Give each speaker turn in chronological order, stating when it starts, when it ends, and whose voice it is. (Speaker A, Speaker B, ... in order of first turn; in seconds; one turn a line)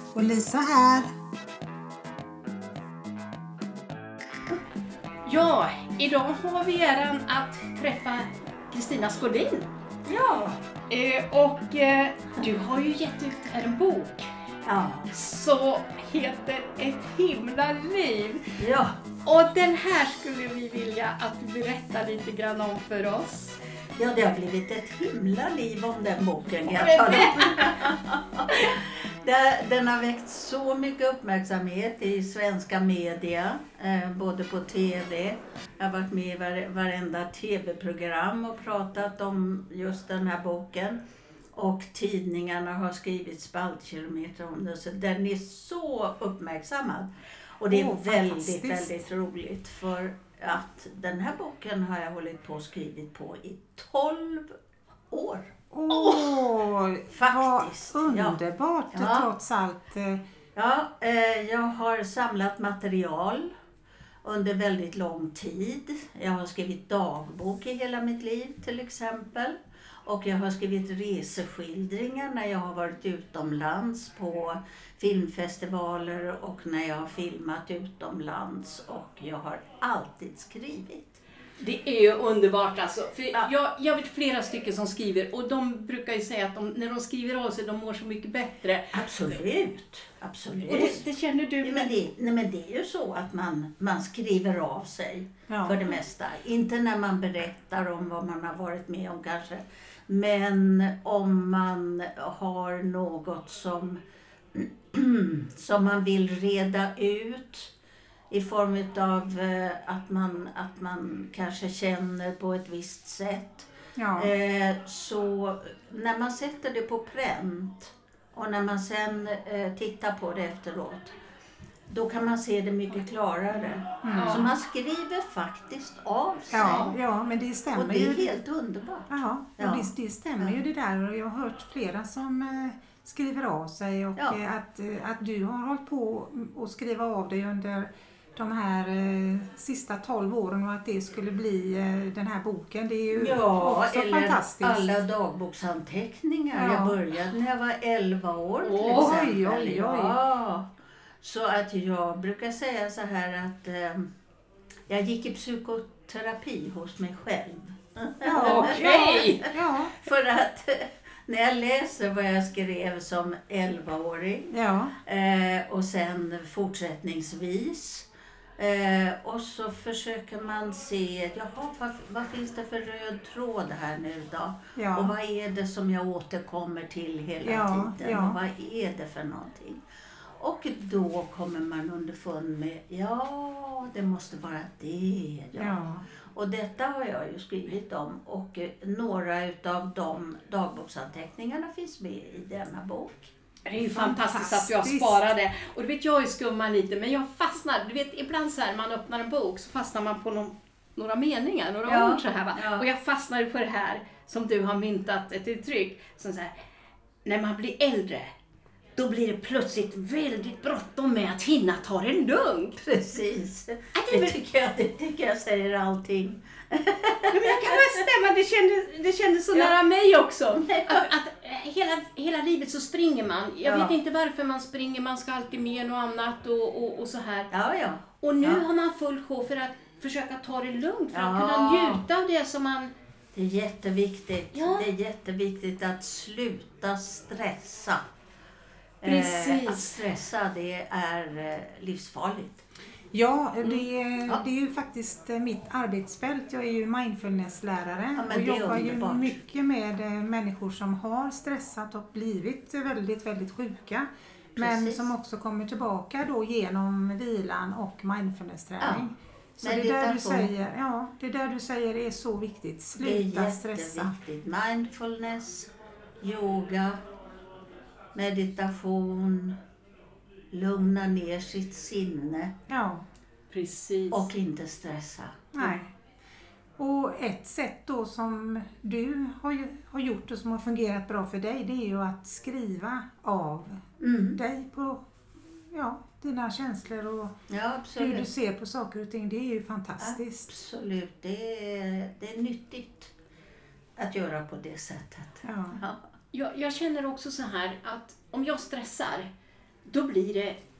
Speaker A: 0.1-1.1
Speaker B: 5.2-9.7
Speaker C: 10.1-10.6
Speaker B: 10.9-14.2
Speaker C: 14.6-15.1
Speaker B: 15.1-18.4
Speaker C: 18.6-19.0
Speaker B: 19.2-23.6
Speaker C: 23.9-41.0
Speaker B: 26.7-27.9
Speaker C: 41.5-54.5
Speaker A: 47.7-49.1
Speaker C: 55.1-55.5
Speaker A: 55.7-60.2
Speaker B: 55.9-56.5
Speaker C: 57.1-58.4
Speaker C: 58.9-59.3
Speaker C: 60.5-63.5
Speaker C: 64.2-81.2
Speaker B: 81.6-88.9
Speaker C: 88.9-91.0
Speaker B: 90.6-92.0
Speaker C: 91.6-104.0
Speaker A: 95.5-95.8
Speaker C: 104.5-107.7
Speaker C: 108.3-121.1
Speaker A: 114.0-114.3
Speaker C: 121.9-127.0
Speaker A: 124.0-124.5
Speaker B: 124.1-124.4
Speaker A: 126.5-128.4
Speaker B: 126.6-126.9
Speaker C: 127.7-130.6
Speaker A: 129.1-145.0
Speaker C: 143.1-150.7
Speaker A: 146.5-147.0
Speaker B: 148.6-149.2
Speaker A: 148.9-150.2
Speaker C: 151.2-154.1
Speaker C: 154.9-164.5
Speaker A: 158.2-160.0
Speaker B: 158.3-159.4
Speaker A: 164.5-164.9
Speaker C: 165.0-168.1
Speaker C: 168.6-179.8
Speaker A: 174.7-175.1
Speaker A: 177.4-178.4
Speaker C: 180.4-185.8
Speaker A: 185.5-186.1
Speaker C: 186.3-193.3
Speaker B: 193.7-206.5
Speaker A: 193.8-195.3
Speaker C: 201.8-202.9
Speaker B: 207.2-208.3
Speaker B: 209.0-212.8
Speaker C: 212.8-217.9
Speaker B: 213.9-214.3
Speaker B: 217.3-227.5
Speaker C: 220.6-221.1
Speaker C: 223.6-223.9
Speaker C: 227.5-228.6
Speaker B: 228.2-232.9
Speaker C: 231.1-232.0
Speaker C: 233.3-238.0
Speaker B: 234.5-234.9
Speaker C: 239.0-242.6
Speaker B: 239.0-240.0
Speaker A: 243.1-264.1
Speaker C: 248.1-249.4
Speaker C: 254.6-255.1
Speaker C: 258.8-259.1
Speaker C: 259.6-260.5
Speaker C: 263.0-265.7
Speaker C: 266.2-267.0
Speaker C: 268.1-269.5
Speaker C: 270.5-272.5
Speaker A: 272.7-273.0
Speaker B: 273.5-274.3
Speaker C: 274.1-275.8
Speaker A: 275.5-275.9
Speaker A: 276.8-287.3
Speaker C: 284.0-284.4
Speaker C: 287.5-288.3
Speaker A: 287.9-290.5
Speaker C: 290.0-293.1
Speaker C: 294.0-296.0
Speaker A: 295.4-295.8
Speaker B: 296.3-299.3
Speaker B: 299.9-300.6